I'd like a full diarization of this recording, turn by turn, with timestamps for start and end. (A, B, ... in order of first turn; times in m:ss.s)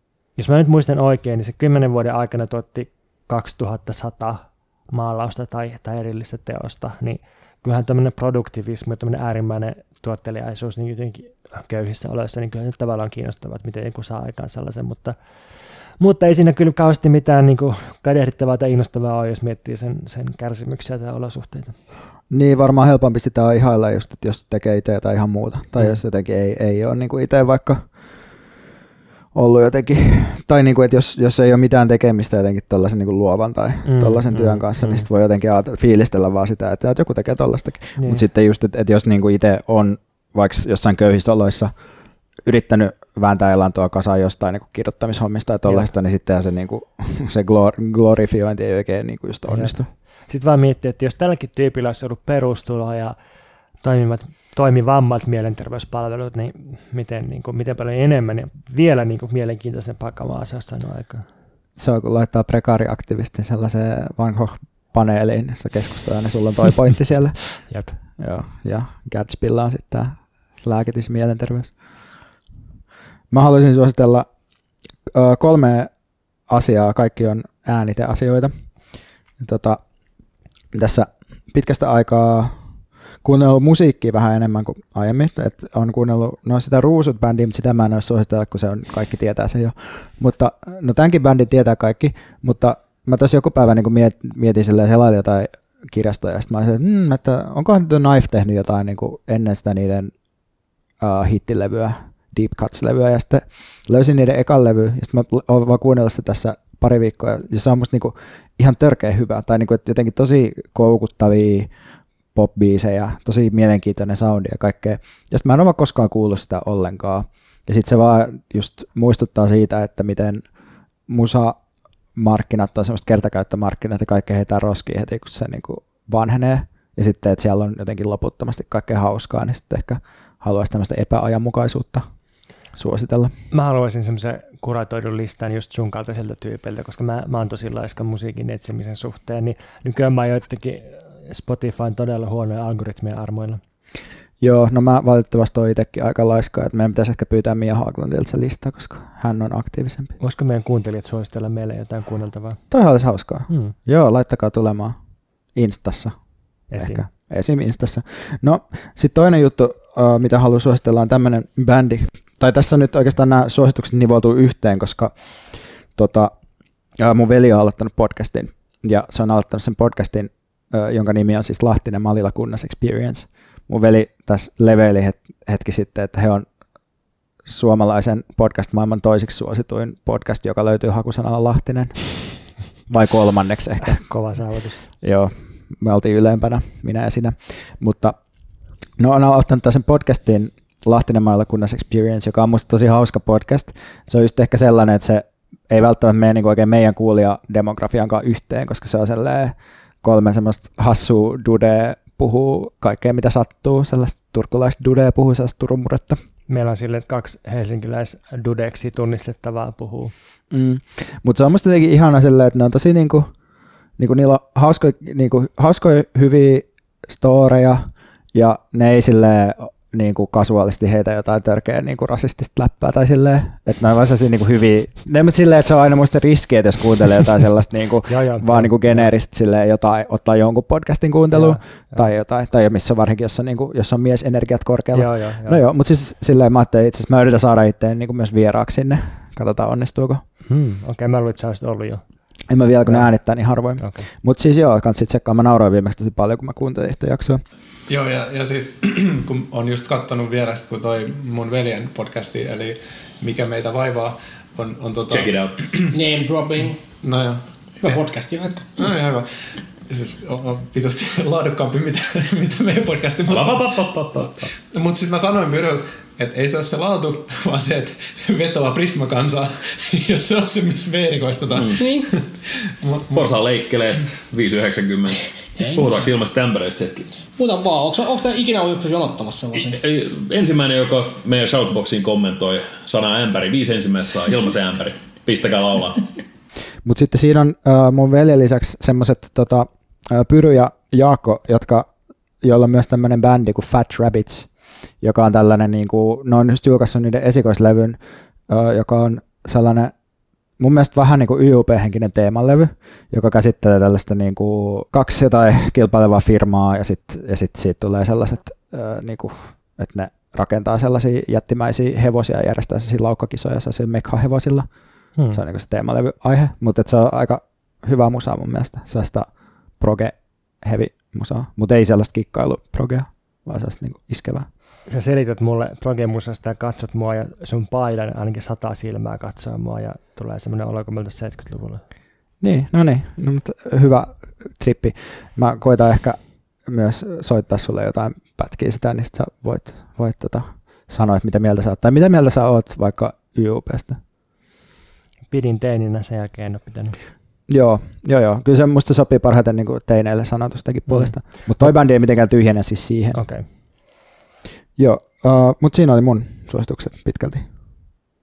0:00.4-0:15.2 A
0:16.0-0:21.7 A
0:22.3-0:27.8 B
0:29.3-0:41.7 B
0:33.8-0:35.0 A
0:38.0-0:38.2 A
0:42.4-0:49.9 B
0:49.5-0:49.8 A
0:50.3-0:53.1 A
0:53.8-1:01.2 A
1:01.8-1:11.7 B
1:07.7-1:08.0 A
1:13.3-1:14.3 B
1:15.0-1:15.9 B
1:16.5-1:18.5 B
1:19.4-1:19.8 B
1:20.7-1:22.6 B
1:23.2-1:40.1 B
1:41.0-1:51.7 B
1:52.3-2:00.4 B
2:01.1-2:01.6 B
2:02.1-2:12.1 B
2:12.7-2:13.3 B
2:13.5-2:23.6 A
2:24.4-2:30.1 B
2:30.2-2:32.6 A
2:32.7-2:35.0 B
2:33.5-2:33.7 A
2:35.5-2:36.2 B
2:36.7-2:37.0 A
2:36.8-2:45.1 B
2:45.9-2:46.3 B
2:47.0-2:56.4 B
2:57.4-3:02.1 B
3:02.9-3:04.0 B
3:03.8-3:04.8 A
3:05.0-3:08.2 B
3:09.0-3:26.2 B
3:26.5-3:30.1 A
3:30.5-3:33.3 B
3:34.0-4:00.2 B
3:48.1-3:49.1 A
3:51.3-3:52.0 A
3:54.9-3:55.6 A
4:00.5-4:02.0 A
4:02.5-4:07.4 B
4:03.8-4:04.0 A
4:07.9-4:15.4 C
4:15.1-4:15.7 D
4:15.9-4:16.8 E
4:17.0-4:18.0 C
4:17.8-4:18.7 E
4:18.8-4:19.3 C
4:19.9-4:23.8 C
4:23.3-4:24.2 D
4:24.7-4:32.1 C
4:31.8-4:32.0 E
4:32.8-4:33.4 C
4:33.1-4:37.1 D
4:35.6-4:35.9 E
4:37.4-4:39.8 E
4:39.5-4:46.0 D
4:46.8-4:51.9 B
4:52.4-4:54.5 B
4:55.0-4:59.9 B
5:00.6-5:14.7 B
5:15.3-5:24.5 B
5:24.9-5:31.8 A
5:32.4-5:44.0 B
5:45.3-5:47.0 A
5:47.5-5:53.2 B
5:50.9-5:51.7 A
5:53.1-5:53.4 A
5:54.8-5:57.5 B